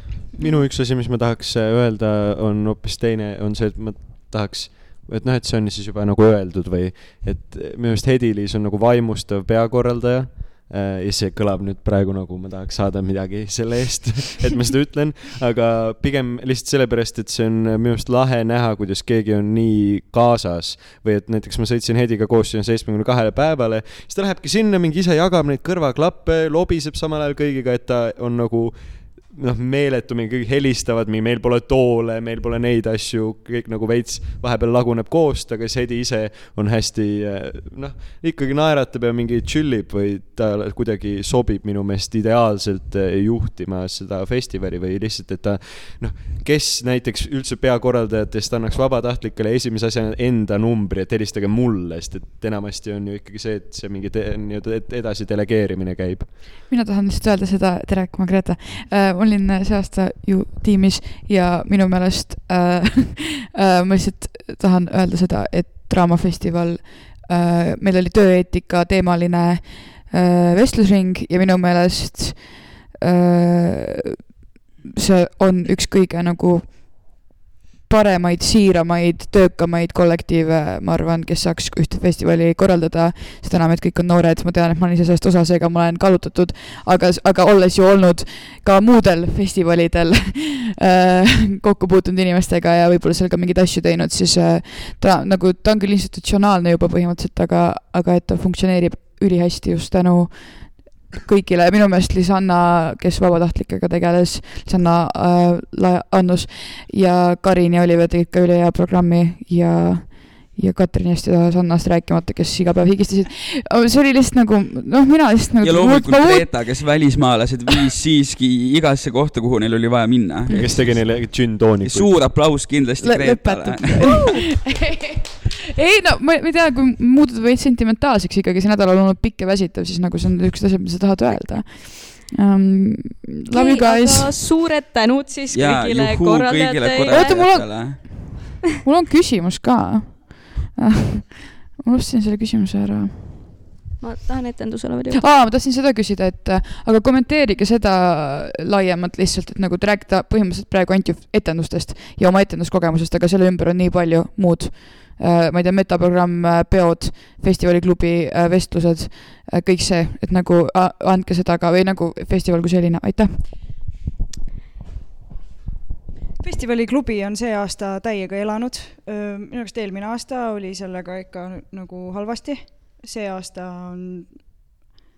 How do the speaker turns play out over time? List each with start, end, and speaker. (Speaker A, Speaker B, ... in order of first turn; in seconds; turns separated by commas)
Speaker A: 0.4-56.3, Speaker B: 56.7-74.2, Speaker B: 74.8-77.3, Speaker B: 77.9-117.0, Speaker C: 115.6-124.4, Speaker A: 120.6-122.1, Speaker B: 123.0-134.4, Speaker D: 133.5-137.4, Speaker C: 135.5-138.3, Speaker B: 137.1-143.5, Speaker D: 144.0-145.2, Speaker B: 145.1-163.6, Speaker E: 166.4-174.4